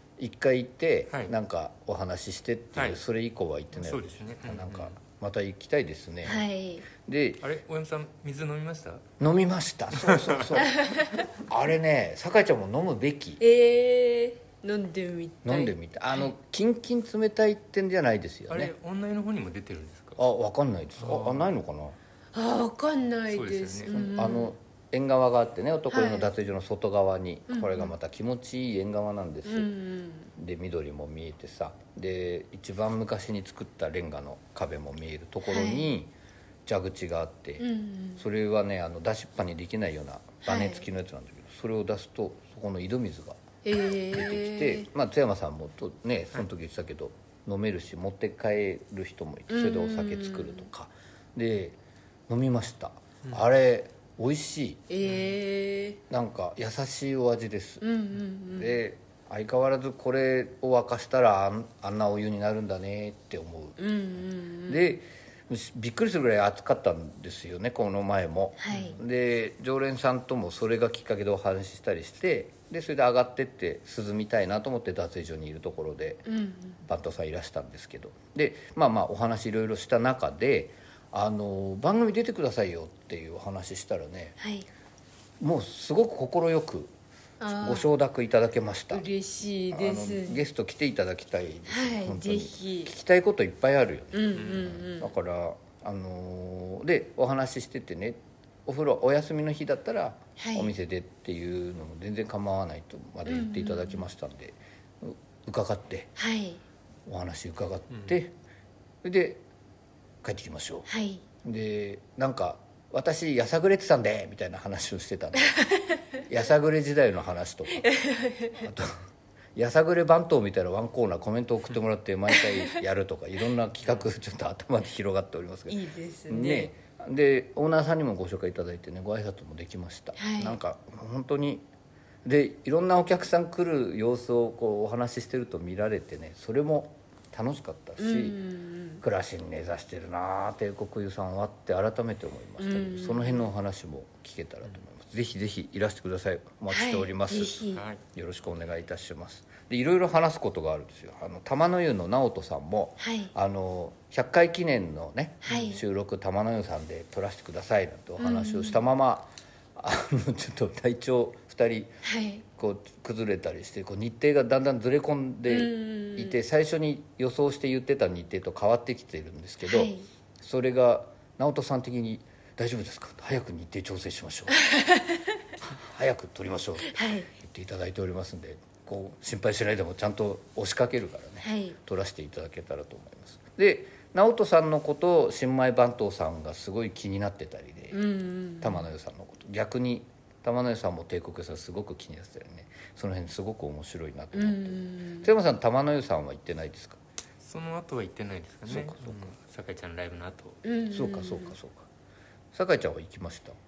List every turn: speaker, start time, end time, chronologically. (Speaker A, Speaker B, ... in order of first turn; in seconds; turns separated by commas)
Speaker A: 0.2-7.4, Speaker B: 3.7-5.0, Speaker C: 6.2-6.8, Speaker B: 7.4-9.0, Speaker A: 9.2-13.4, Speaker B: 9.9-10.6, Speaker C: 13.4-15.7, Speaker A: 15.4-18.7, Speaker B: 18.5-20.2, Speaker A: 20.2-22.0, Speaker B: 21.0-21.5, Speaker C: 22.3-24.5, Speaker B: 23.3-23.9, Speaker A: 23.9-29.7, Speaker C: 25.9-26.3, Speaker C: 27.5-27.9, Speaker C: 29.5-30.3, Speaker A: 30.4-36.1, Speaker C: 35.5-35.9, Speaker A: 36.6-37.6, Speaker C: 37.6-38.2, Speaker A: 38.2-43.4, Speaker C: 40.4-40.8, Speaker C: 43.6-44.9, Speaker A: 44.1-54.8, Speaker C: 49.5-50.7, Speaker C: 54.9-56.0, Speaker A: 56.1-57.8, Speaker C: 57.8-58.8, Speaker A: 58.5-63.8, Speaker C: 63.8-64.9, Speaker A: 64.7-76.3, Speaker C: 68.6-69.0, Speaker C: 76.2-76.8, Speaker A: 76.8-84.3, Speaker C: 84.4-84.7, Speaker A: 85.4-86.9, Speaker C: 87.4-87.9, Speaker A: 87.5-89.1, Speaker C: 88.9-90.5, Speaker A: 89.7-106.1, Speaker C: 91.7-92.9, Speaker C: 94.1-95.1, Speaker B: 94.3-94.7, Speaker C: 100.4-100.7, Speaker C: 103.3-104.0, Speaker C: 106.2-106.6, Speaker A: 107.0-108.3, Speaker B: 107.9-108.2, Speaker A: 109.0-109.4, Speaker A: 110.2-110.9, Speaker C: 110.9-111.2, Speaker A: 111.4-115.6, Speaker C: 115.5-116.0, Speaker A: 116.2-117.9, Speaker C: 117.8-118.6, Speaker A: 118.6-119.0, Speaker A: 119.5-131.7, Speaker C: 122.3-122.8, Speaker C: 125.7-126.7, Speaker C: 130.2-130.6, Speaker A: 132.2-138.4, Speaker C: 138.0-139.0, Speaker A: 139.0-161.9, Speaker C: 142.6-143.5, Speaker C: 146.7-147.8, Speaker B: 147.7-148.0, Speaker C: 153.0-153.3, Speaker C: 155.4-155.8, Speaker C: 158.2-158.8, Speaker C: 162.0-162.4, Speaker A: 162.5-174.6, Speaker C: 165.5-166.4, Speaker C: 169.6-170.1, Speaker C: 174.5-175.2, Speaker A: 175.6-188.0, Speaker C: 176.8-177.3, Speaker C: 181.4-181.8, Speaker C: 187.9-188.8, Speaker A: 188.6-197.0, Speaker C: 194.3-195.3, Speaker B: 197.4-200.6, Speaker A: 198.7-199.3, Speaker C: 200.6-201.5, Speaker A: 200.9-201.9, Speaker A: 202.5-203.6